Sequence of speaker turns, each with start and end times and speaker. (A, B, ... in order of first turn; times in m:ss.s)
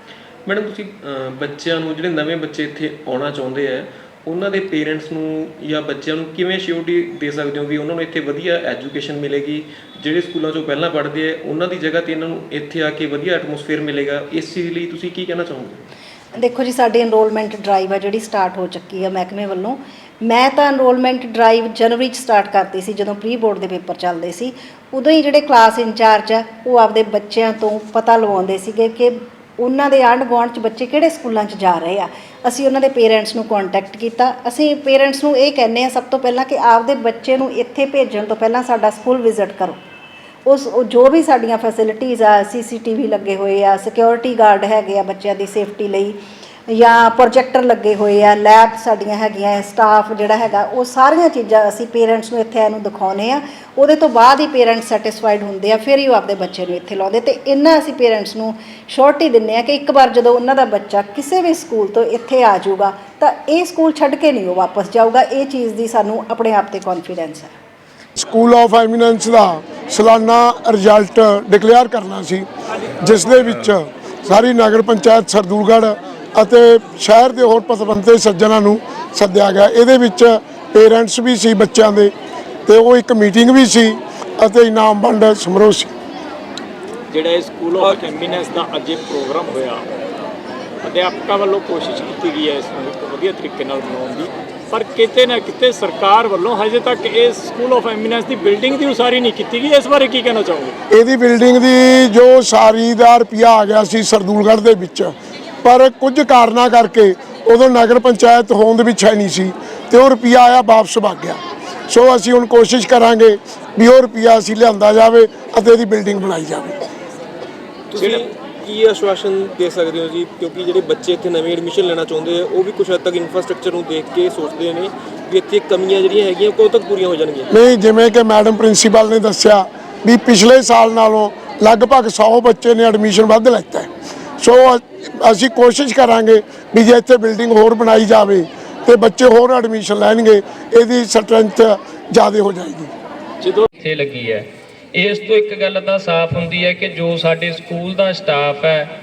0:00.5-0:15.8 A
0:16.4-0:39.8 B
0:40.5-0:46.2 B
0:46.7-1:07.5 B
1:08.2-1:12.4 C
1:13.0-1:22.1 C
1:22.7-1:25.9 C
1:27.1-1:29.9 D
1:30.8-1:40.8 D
1:40.9-1:45.1 C
1:45.6-1:56.9 C
1:57.9-2:07.5 A
2:07.5-2:13.9 C
2:14.4-2:22.9 C
2:23.8-2:28.9 E